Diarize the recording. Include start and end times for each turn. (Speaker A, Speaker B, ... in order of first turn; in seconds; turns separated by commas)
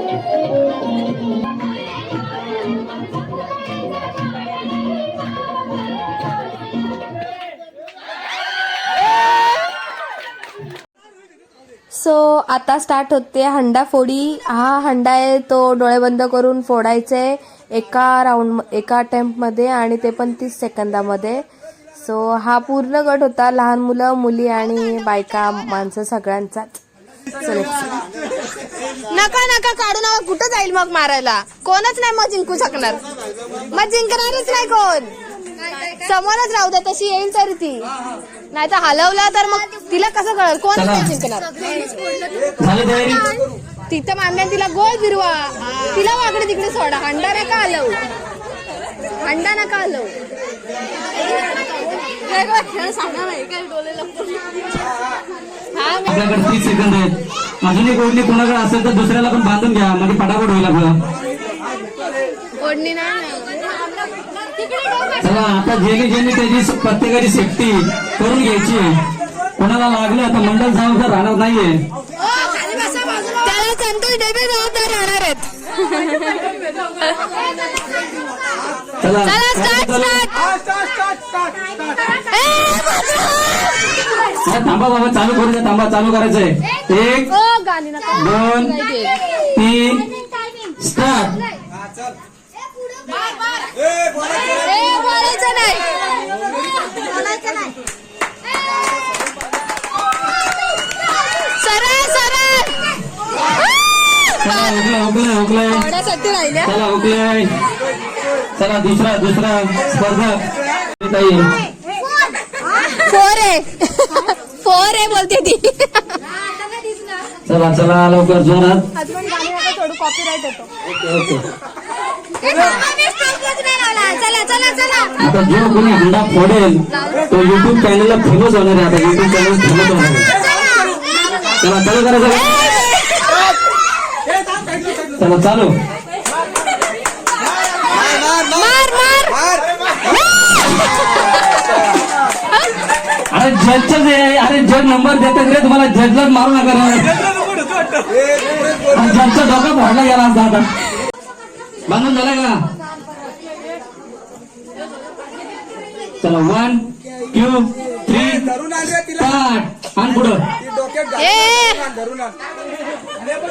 Speaker A: 11.9-21.4, Speaker A: 21.9-26.8, Speaker A: 27.3-28.0, Speaker B: 29.1-33.0, Speaker B: 33.7-35.1, Speaker B: 35.8-37.9, Speaker B: 38.5-41.8, Speaker C: 40.7-41.1, Speaker C: 42.6-43.4, Speaker B: 43.9-48.0, Speaker B: 49.2-50.1, Speaker B: 51.2-54.4, Speaker B: 55.7-56.3, Speaker C: 56.1-61.0, Speaker B: 62.6-63.8, Speaker C: 65.2-68.9, Speaker C: 69.6-71.8, Speaker B: 72.4-76.5, Speaker C: 79.0-80.3, Speaker B: 79.2-80.4, Speaker B: 82.0-84.0, Speaker C: 84.4-87.3, Speaker B: 87.3-89.2, Speaker C: 88.1-88.8, Speaker C: 89.5-90.1, Speaker C: 90.8-91.4, Speaker B: 94.4-95.9, Speaker B: 101.4-102.8, Speaker C: 104.4-105.8, Speaker B: 105.7-106.7, Speaker C: 106.6-107.5, Speaker C: 108.6-110.4, Speaker C: 111.0-111.5, Speaker B: 112.9-116.2, Speaker C: 117.5-118.8, Speaker B: 119.0-120.7, Speaker C: 120.9-121.4, Speaker B: 122.4-125.2, Speaker C: 125.2-130.3, Speaker B: 130.5-131.2, Speaker C: 131.6-132.8, Speaker B: 132.8-133.4, Speaker C: 135.2-135.7, Speaker B: 138.4-139.5, Speaker C: 143.3-147.6, Speaker C: 148.8-150.7, Speaker C: 151.9-152.6, Speaker C: 156.2-160.4, Speaker B: 161.2-161.9